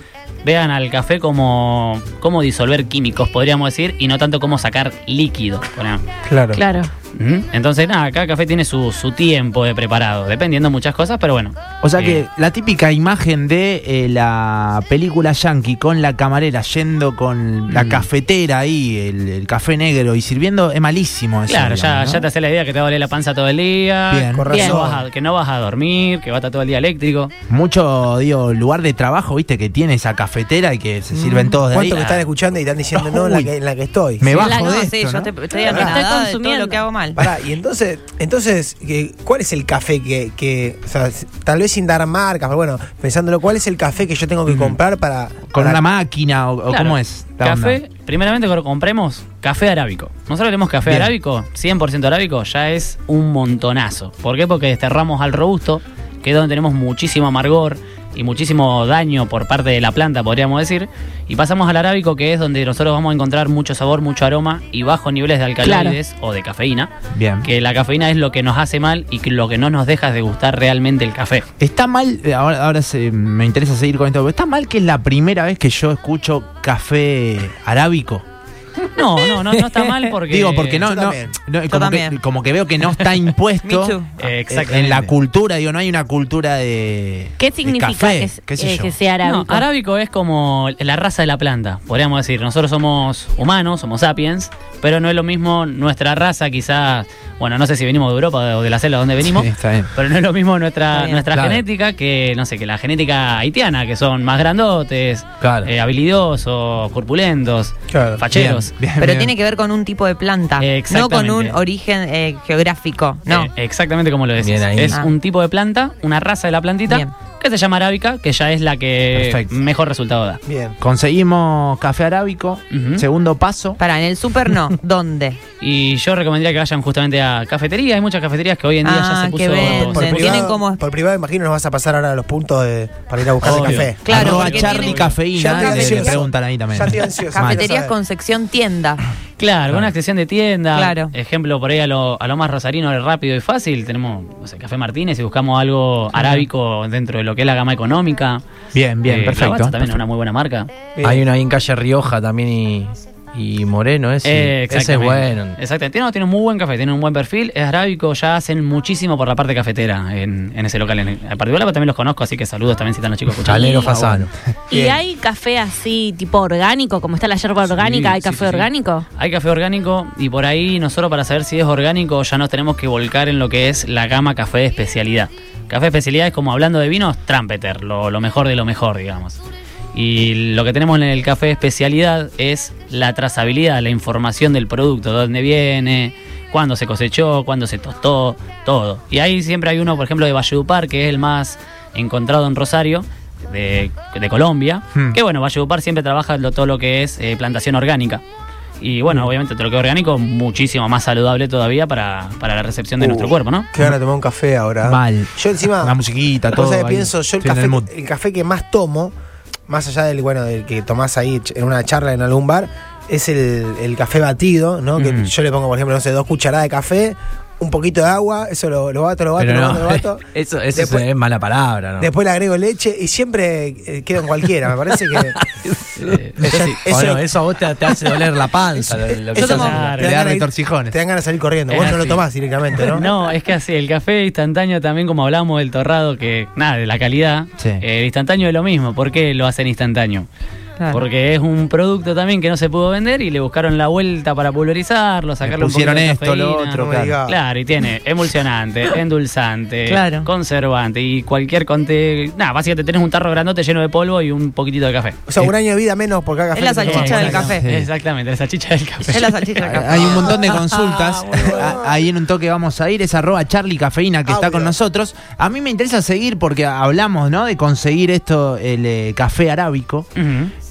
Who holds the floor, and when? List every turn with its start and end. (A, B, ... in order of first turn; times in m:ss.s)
0:00.4-0:06.0 A
0:06.3-0:06.6 B
0:06.5-0:06.9 C
0:07.2-0:12.2 A
0:11.8-0:22.3 D
0:17.7-0:18.1 A
0:21.5-0:27.3 A
0:24.1-0:24.8 D
0:24.3-0:25.0 B
0:24.5-0:24.8 C
0:27.5-0:32.2 D
0:31.2-0:34.5 B
0:32.0-0:32.2 A
0:32.9-0:33.5 D
0:34.2-0:35.3 D
0:34.3-0:34.9 C
0:34.4-0:37.2 E
0:35.7-0:36.0 B
0:35.7-0:36.8 C
0:37.2-0:45.8 B
0:45.5-0:47.8 D
0:46.7-1:06.9 A
0:50.8-0:51.1 D
1:05.6-1:06.0 C
1:07.1-1:07.5 D
1:07.4-1:11.5 A
1:11.6-1:18.2 D
1:18.9-1:20.9 A
1:20.2-1:29.0 D
1:20.8-1:21.3 B
1:21.7-1:22.2 E
1:23.6-1:24.1 E
1:24.2-1:25.1 A
1:27.4-1:29.7 C
1:29.2-1:48.7 A
1:39.2-1:39.9 D
1:40.9-1:41.2 E
1:41.3-1:41.6 F
1:45.4-1:45.7 F
1:47.9-1:48.2 B
1:48.3-1:49.3 D
1:49.0-1:53.5 E
1:50.6-1:51.6 A
1:53.3-2:00.4 A
1:54.4-1:55.0 F
1:59.1-1:59.5 D
2:00.5-2:00.8 B
2:00.8-2:03.8 D
2:02.7-2:03.0 A
2:03.8-2:05.4 E
2:05.6-2:10.5 A
2:08.8-2:10.8 E
2:09.6-2:14.7 B
2:13.4-2:15.2 A
2:13.4-2:17.7 D
2:14.0-2:16.0 E
2:15.3-2:17.9 B
2:17.4-2:19.0 E
2:19.4-2:28.4 A
2:20.7-2:21.1 E
2:28.7-2:30.0 D
2:29.0-2:30.7 A
2:31.0-2:31.2 B
2:31.0-2:35.6 F
2:34.2-2:43.9 A
2:43.4-2:44.3 F
2:43.6-2:43.9 C
2:44.7-2:49.0 C
2:44.7-2:45.0 B
2:47.6-2:59.4 A
2:59.9-3:18.2 A
3:18.8-3:23.7 A
3:23.0-3:26.0 B
3:24.8-3:27.9 D
3:26.5-3:29.1 B
3:29.7-3:41.1 B
3:35.0-3:35.3 A
3:39.4-3:42.1 F
3:42.0-3:45.4 B
3:45.1-3:50.0 F
3:46.0-3:46.8 A
3:46.4-3:47.3 B
3:48.9-3:53.1 B
3:49.4-3:49.8 E
3:49.4-3:50.1 A
3:50.0-3:51.0 D
3:51.7-3:52.2 A
3:52.8-4:00.3 A
4:00.9-4:15.2 A
4:05.4-4:07.2 D
4:06.8-4:07.4 B
4:09.9-4:10.3 E
4:15.3-4:17.6 B
4:16.5-4:17.6 E
4:16.9-4:20.3 A
4:17.2-4:17.9 D
4:19.1-4:20.5 E
4:19.6-4:30.1 D
4:20.0-4:21.9 B
4:24.3-4:24.7 B
4:30.2-4:30.5 A